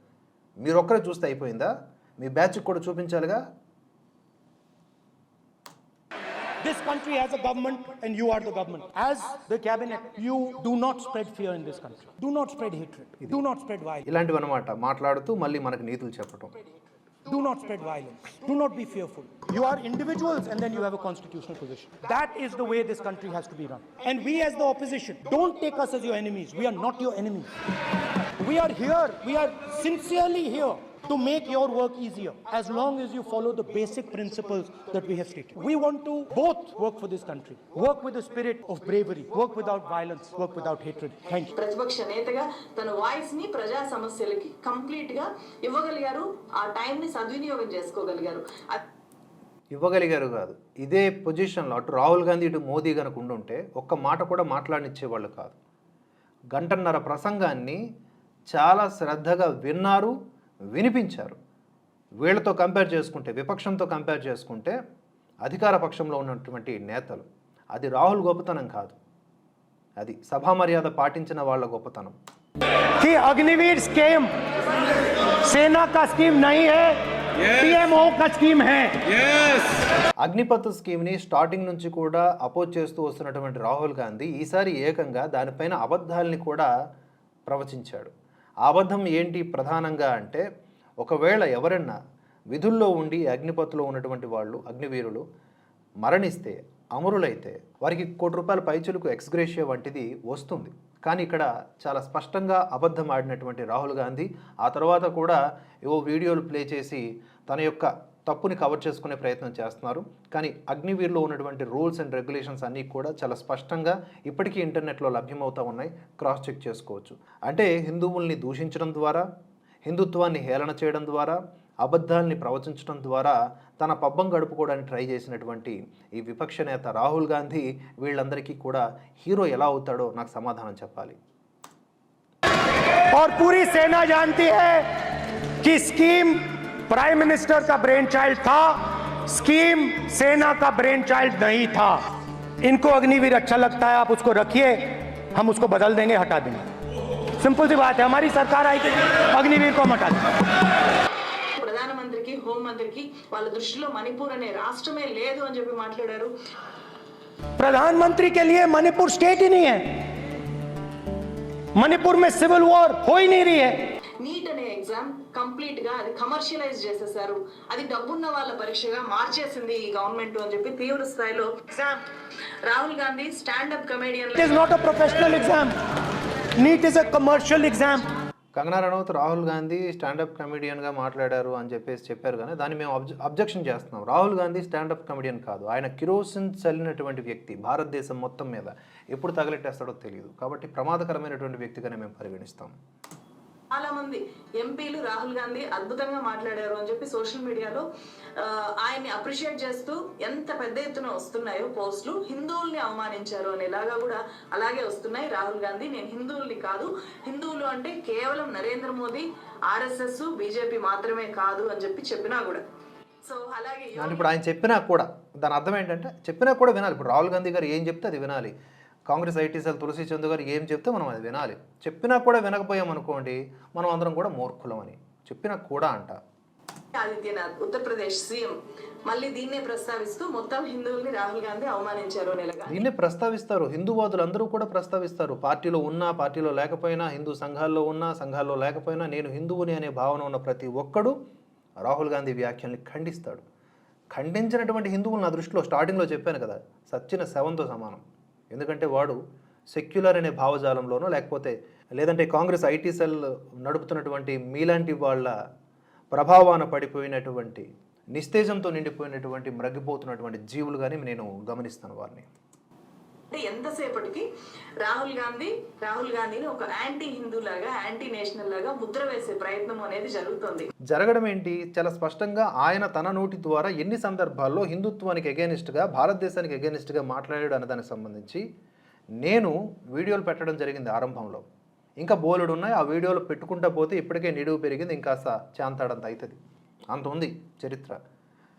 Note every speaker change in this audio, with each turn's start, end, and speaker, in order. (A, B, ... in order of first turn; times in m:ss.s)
0:00.6-0:03.4 A
0:06.6-0:14.0 B
0:14.1-0:16.5 A
0:17.3-0:27.5 B
0:28.4-0:41.5 B
0:41.6-0:48.8 C
0:49.8-0:55.6 A
0:56.5-0:57.8 A
0:58.5-1:00.1 A
1:00.7-1:01.4 A
1:02.2-1:04.8 A
1:05.4-1:09.0 A
1:10.0-1:12.1 A
1:13.0-1:14.3 B
1:15.5-1:19.6 B
1:20.2-1:26.7 A
1:27.5-1:28.1 A
1:28.6-1:30.4 A
1:31.0-1:32.0 A
1:32.5-1:35.2 A
1:36.0-1:59.2 A
1:59.9-2:11.2 A
2:13.1-2:14.8 B
2:15.6-2:22.0 B
2:22.6-2:26.7 B
2:27.3-2:30.2 B
2:31.6-2:36.3 C
2:37.6-2:39.9 B
2:41.8-2:43.8 B
2:44.2-2:52.0 C
2:52.7-2:54.5 C
2:54.4-2:55.7 B
2:56.6-2:58.1 B
2:58.6-3:12.7 A
3:13.7-3:17.8 C
3:18.4-3:32.6 C
3:33.2-3:34.3 C
3:34.0-3:38.5 A
3:39.1-3:46.2 A
3:47.0-3:48.6 C
3:49.1-3:52.9 C
3:52.7-4:01.1 A
4:01.8-4:03.4 A
4:04.1-4:08.0 A
4:08.5-4:09.2 A
4:09.7-4:15.3 A
4:16.1-4:22.3 A
4:23.3-4:24.2 C
4:24.8-4:30.7 C
4:30.9-4:38.4 A
4:39.2-4:41.4 A
4:42.0-4:46.4 A
4:46.9-4:48.0 A